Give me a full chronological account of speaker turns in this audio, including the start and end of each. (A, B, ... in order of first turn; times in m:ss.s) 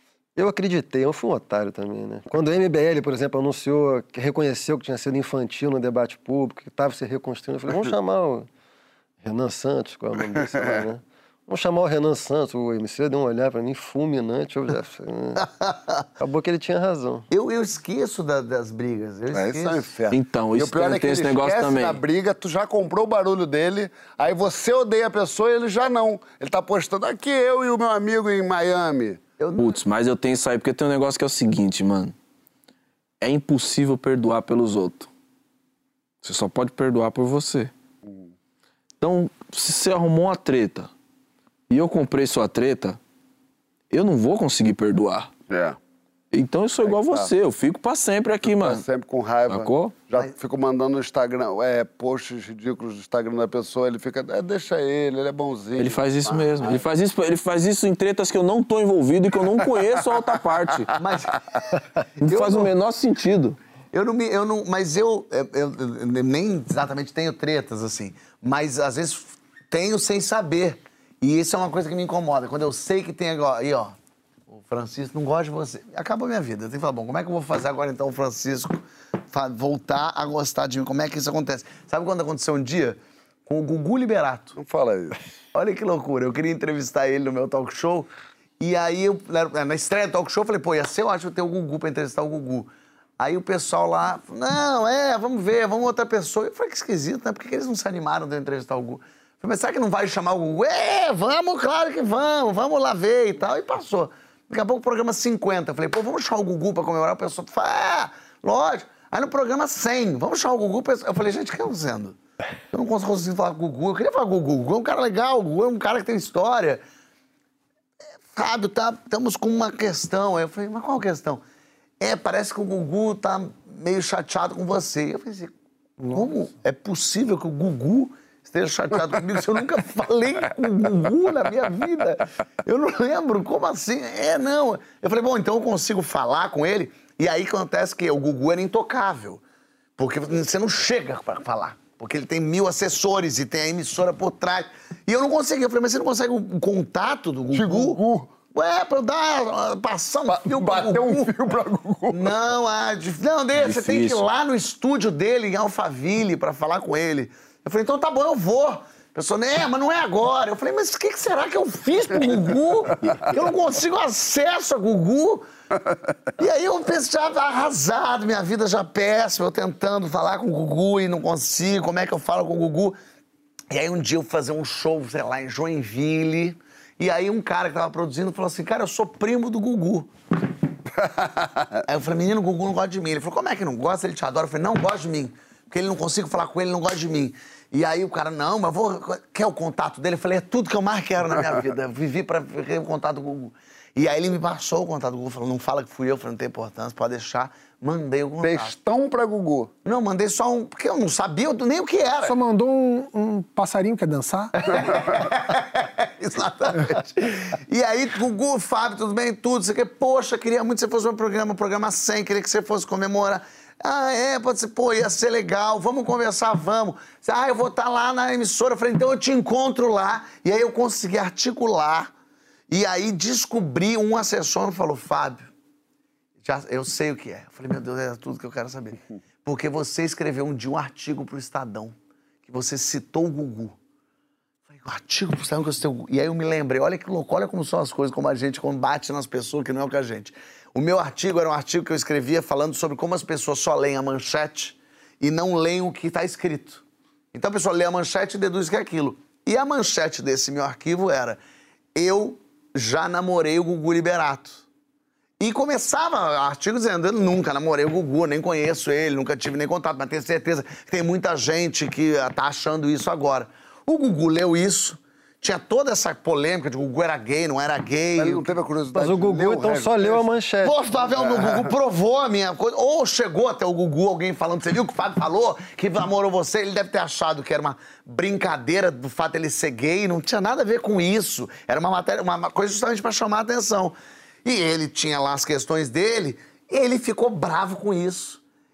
0:00.4-0:08.5 A
0:09.2-0:15.5 A
0:10.3-0:10.9 B
0:15.4-0:16.0 C
0:16.2-0:17.3 A
0:17.3-0:19.9 C
0:19.3-0:29.2 B
0:20.1-0:22.0 D
0:29.4-0:29.8 C
0:29.6-0:32.1 D
0:33.2-0:35.1 D
0:36.2-0:37.7 D
0:39.0-0:40.9 D
0:41.7-0:43.0 D
0:43.9-0:45.3 D
0:45.5-0:45.8 B
0:46.3-0:48.8 D
0:46.8-0:47.3 B
0:48.5-0:56.8 B
0:49.5-0:50.0 D
0:55.8-1:01.0 D
1:00.9-1:01.6 C
1:02.2-1:02.7 C
1:02.2-1:03.6 D
1:03.9-1:14.0 C
1:14.5-1:24.6 C
1:24.6-1:25.2 B
1:25.5-1:52.2 C
1:52.7-1:56.8 C
1:58.3-2:01.4 C
2:02.0-2:05.5 C
2:06.0-2:06.3 E
2:06.1-2:19.4 C
2:20.0-2:31.3 C
2:27.5-2:28.3 B
2:30.3-2:32.4 B
2:32.1-2:45.4 C
2:33.6-2:34.2 D
2:46.4-2:53.0 C
2:53.7-3:00.1 C
3:01.0-3:01.7 B
3:01.9-3:18.7 C
3:18.4-3:19.7 B
3:19.8-3:22.4 C
3:22.2-3:24.6 E
3:24.6-3:42.1 C
3:42.7-3:45.4 C
3:46.4-3:53.8 C
3:54.7-4:11.4 C
4:12.0-4:14.6 C
4:15.4-4:28.5 C
4:28.2-4:30.3 B
4:28.9-4:30.8 A
4:30.6-4:48.4 C
4:31.3-4:31.7 B